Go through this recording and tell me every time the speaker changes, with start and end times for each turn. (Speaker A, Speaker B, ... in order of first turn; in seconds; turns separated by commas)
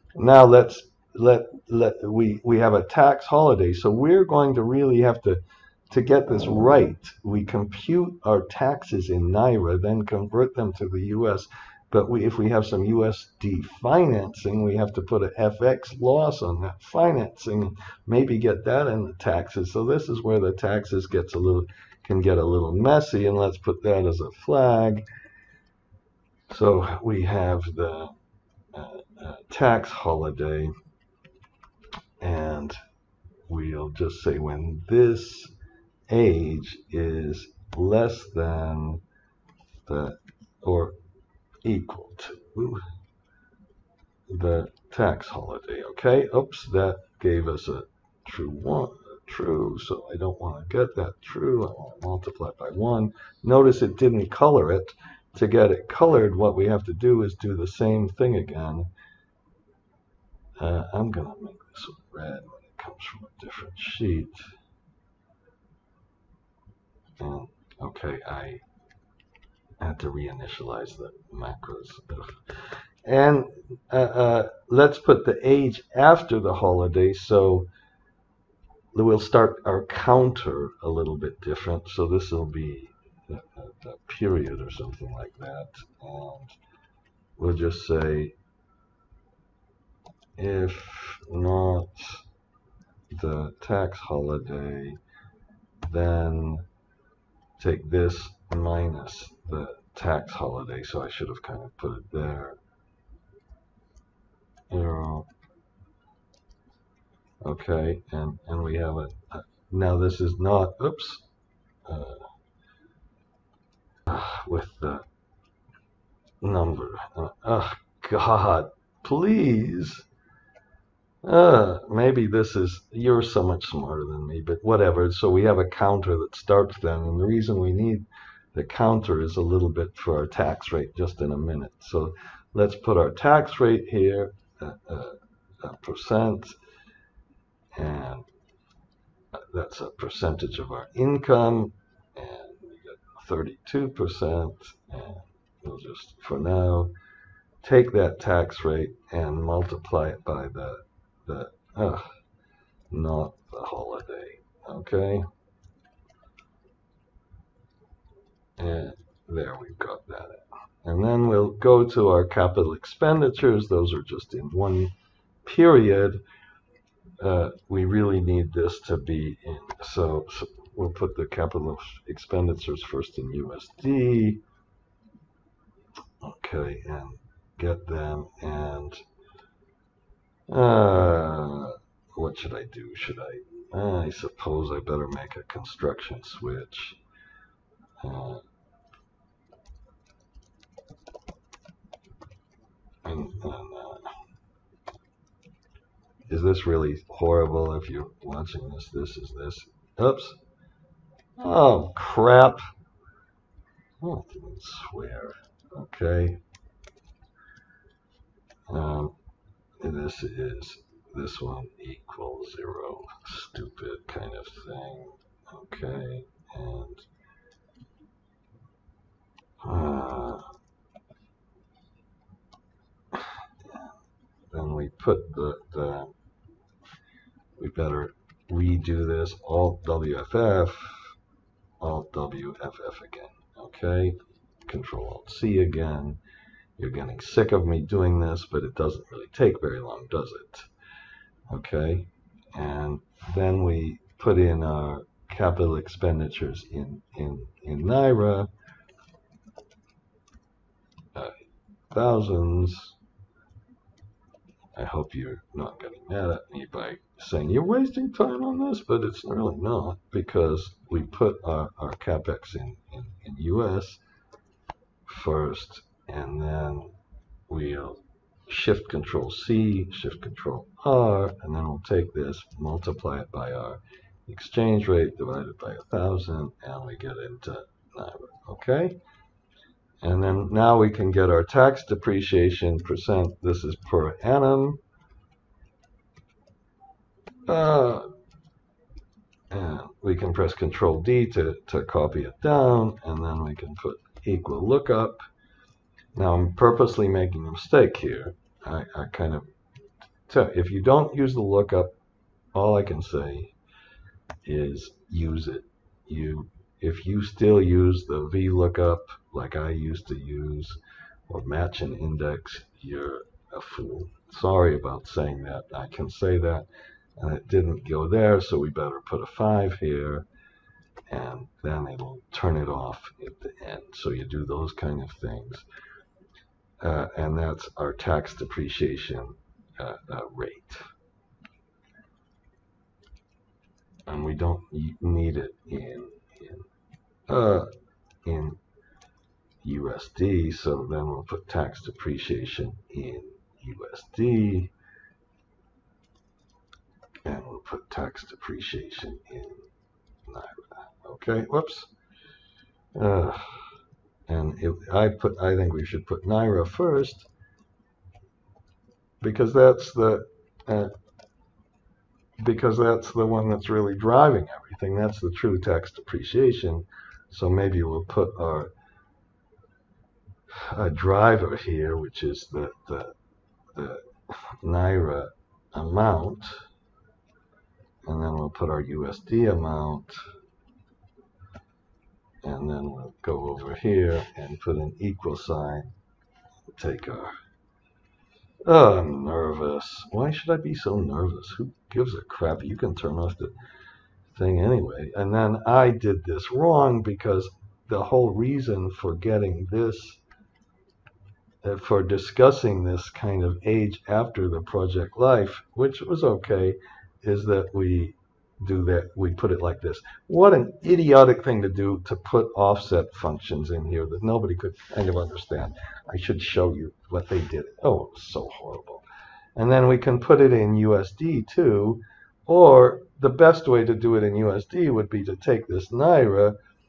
Speaker A: 0.1-25.0, Speaker A: 26.5-28.1, Speaker A: 28.7-30.7, Speaker A: 32.2-32.8, Speaker A: 33.5-35.5, Speaker A: 36.1-39.0, Speaker A: 39.9-41.0, Speaker A: 41.6-42.8, Speaker A: 44.3-58.9, Speaker A: 60.6-64.4, Speaker A: 67.2-68.6, Speaker A: 69.8-77.7, Speaker A: 78.9-86.5, Speaker A: 87.4-88.3, Speaker A: 90.4-92.2, Speaker A: 93.1-95.0, Speaker A: 95.8-96.6, Speaker A: 97.6-102.6, Speaker A: 104.7-105.3, Speaker A: 107.4-111.2, Speaker A: 111.8-112.3, Speaker A: 114.0-115.0, Speaker A: 116.4-120.0, Speaker A: 121.2-136.6, Speaker A: 137.7-138.3, Speaker A: 139.3-146.9, Speaker A: 147.6-152.1, Speaker A: 152.9-155.2, Speaker A: 158.6-164.9, Speaker A: 165.4-166.2, Speaker A: 167.2-174.4, Speaker A: 176.2-179.0, Speaker A: 180.5-187.0, Speaker A: 188.0-188.4, Speaker A: 193.0-194.1, Speaker A: 196.3-200.4, Speaker A: 201.4-202.7, Speaker A: 204.0-206.4, Speaker A: 208.7-209.1, Speaker A: 209.8-217.1, Speaker A: 219.6-220.5, Speaker A: 223.1-223.9, Speaker A: 224.5-226.1, Speaker A: 227.6-231.1, Speaker A: 231.8-236.2, Speaker A: 236.8-240.7, Speaker A: 241.5-248.5, Speaker A: 251.9-252.9, Speaker A: 254.7-264.0, Speaker A: 265.1-266.9, Speaker A: 267.5-279.0, Speaker A: 280.0-284.8, Speaker A: 287.5-288.1, Speaker A: 289.5-295.2, Speaker A: 296.1-299.5, Speaker A: 300.2-301.9, Speaker A: 302.5-303.5, Speaker A: 304.4-316.6, Speaker A: 317.2-320.2, Speaker A: 321.1-325.6, Speaker A: 326.8-330.8, Speaker A: 334.1-336.7, Speaker A: 337.3-337.7, Speaker A: 338.2-338.6, Speaker A: 339.6-344.7, Speaker A: 347.2-349.7, Speaker A: 350.2-351.9, Speaker A: 352.9-353.6, Speaker A: 354.3-357.3, Speaker A: 359.2-360.9, Speaker A: 362.4-368.7, Speaker A: 370.6-373.1, Speaker A: 373.7-374.1, Speaker A: 374.6-376.6, Speaker A: 378.0-380.2, Speaker A: 382.4-385.9, Speaker A: 386.7-387.3, Speaker A: 388.7-393.5, Speaker A: 394.3-400.2, Speaker A: 401.6-419.0, Speaker A: 419.6-426.6